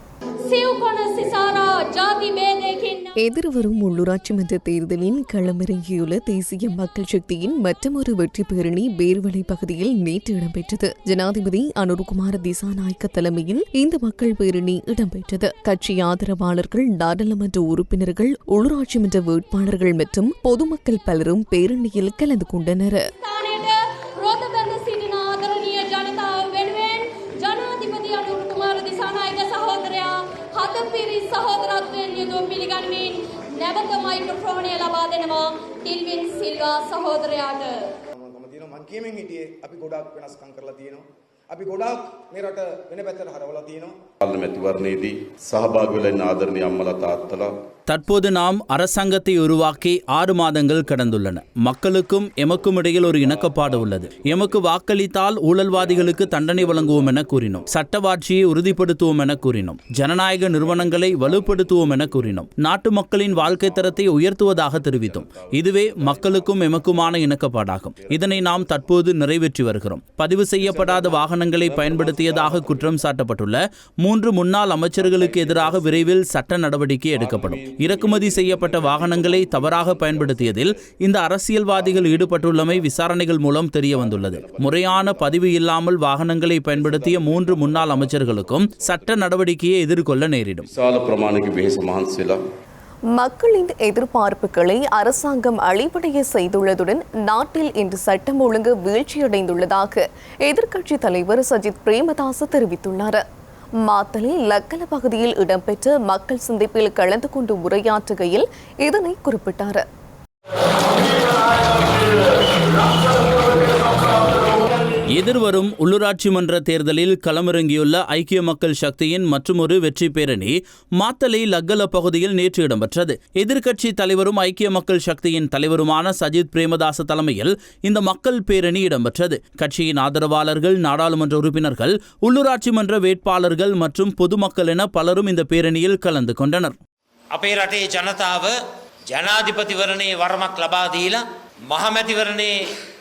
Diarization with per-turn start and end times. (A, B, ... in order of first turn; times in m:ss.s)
0:00.4-0:03.1 A
0:03.2-0:23.0 B
0:23.2-0:37.9 A
0:38.2-0:44.0 C
0:44.2-0:47.5 D
0:47.9-1:30.6 E
0:53.6-0:54.3 D
0:55.9-0:57.6 D
1:00.6-1:02.1 D
1:03.4-1:04.0 D
1:04.5-1:07.2 D
1:07.9-1:08.8 D
1:10.6-1:13.1 D
1:15.0-1:16.1 D
1:17.1-1:20.8 D
1:21.7-1:23.1 D
1:23.9-1:25.5 D
1:26.7-1:29.2 D
1:30.7-1:32.4 D
1:33.2-1:43.2 B
1:43.8-1:49.8 B
1:55.1-2:16.8 E
2:17.3-2:18.6 F
2:19.1-2:22.7 F